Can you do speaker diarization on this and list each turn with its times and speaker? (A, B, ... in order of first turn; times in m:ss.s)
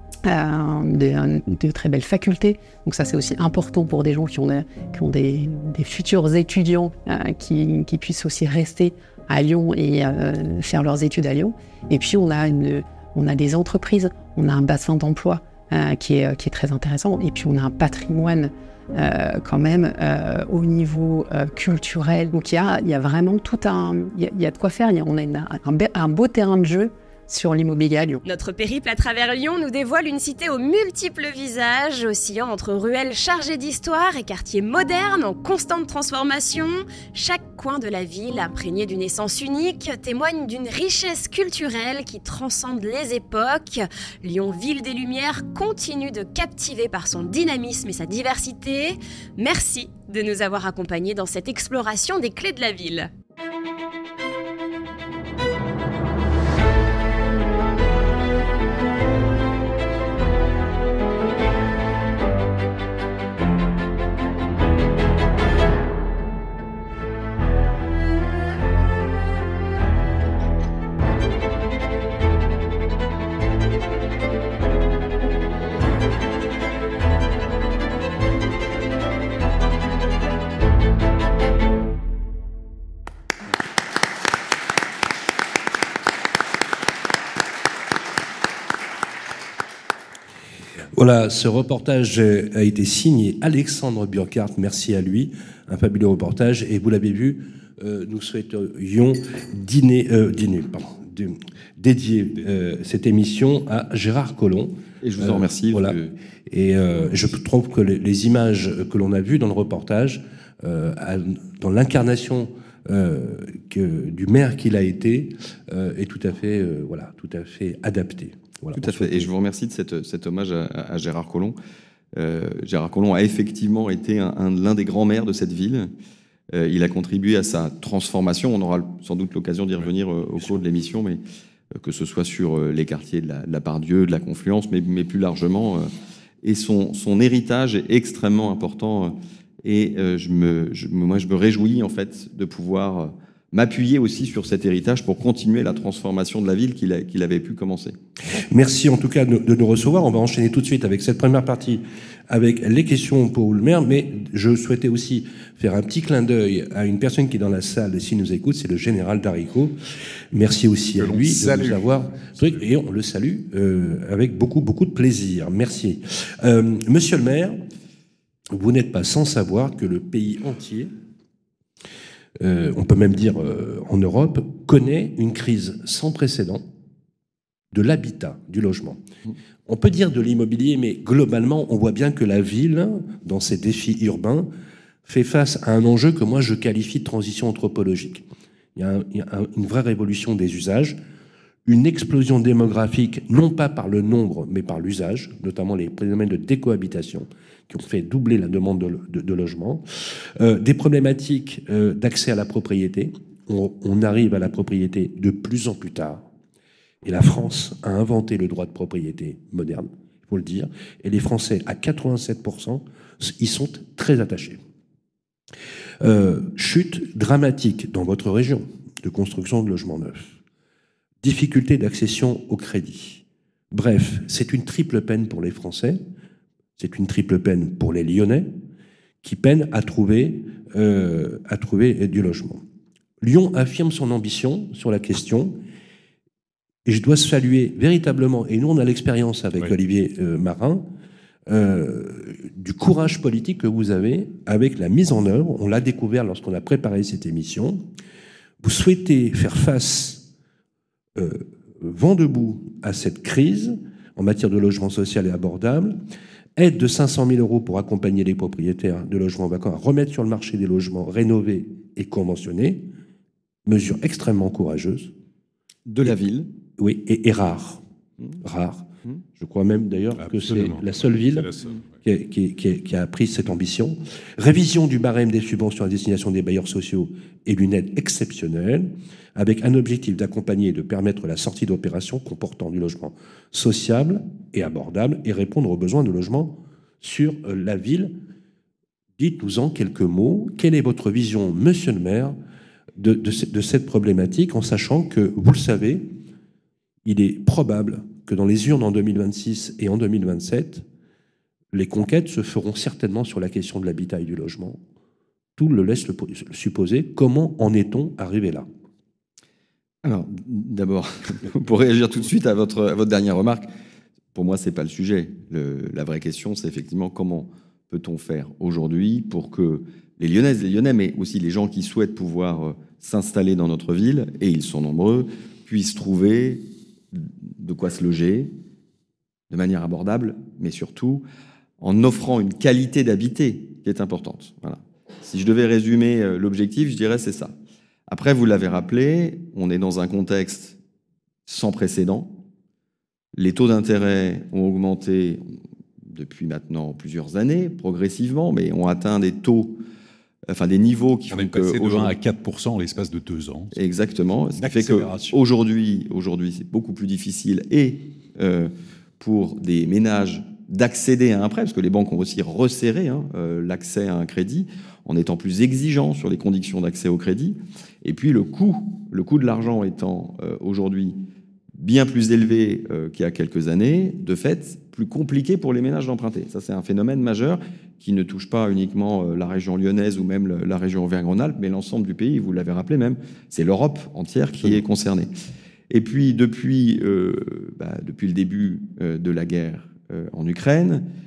0:00.2-0:28.2 A
0:28.2-0:53.1 B
1:30.9-1:59.3 C
1:45.0-1:46.1 D
1:58.8-2:01.6 D
2:02.1-2:05.9 D
2:06.5-2:11.2 D
2:09.8-2:10.6 E
2:11.8-2:15.9 D
2:16.4-2:28.0 D
2:28.3-2:39.7 C
2:40.3-2:47.6 C
2:41.0-2:42.7 E
2:48.5-2:50.9 C
2:52.4-2:56.6 C
2:57.7-2:59.0 C
2:59.7-3:04.5 C
3:05.0-3:11.0 C
3:11.6-3:19.8 C
3:20.4-3:26.2 C
3:27.0-3:34.6 C
3:36.0-3:40.3 C
3:41.2-3:46.0 C
3:46.8-3:48.6 C
3:49.2-3:52.6 C
3:53.2-3:55.6 C
3:56.8-4:00.9 C
4:01.5-4:07.8 C
4:08.6-4:10.2 C
4:11.2-4:16.0 C
4:16.6-4:22.9 C
4:23.6-4:25.1 C
4:25.9-4:26.5 D
4:26.8-4:27.8 C
4:28.4-4:31.5 C
4:30.2-4:31.8 E
4:32.0-4:48.1 C
4:49.2-4:52.3 C
4:53.0-4:56.1 C
4:57.0-5:00.8 C
5:01.7-5:04.8 C
5:05.6-5:08.7 C
5:10.0-5:13.7 D
5:14.3-5:28.5 D
5:29.5-5:31.2 D
5:31.8-5:37.5 D
5:38.1-5:40.8 D
5:41.5-5:42.4 D
5:43.4-5:45.5 D
5:46.0-5:49.8 D
5:50.5-5:52.1 D
5:51.3-5:53.7 E
5:53.7-6:11.1 D
5:54.6-5:55.4 E
6:11.8-6:25.3 D
6:25.9-6:31.0 D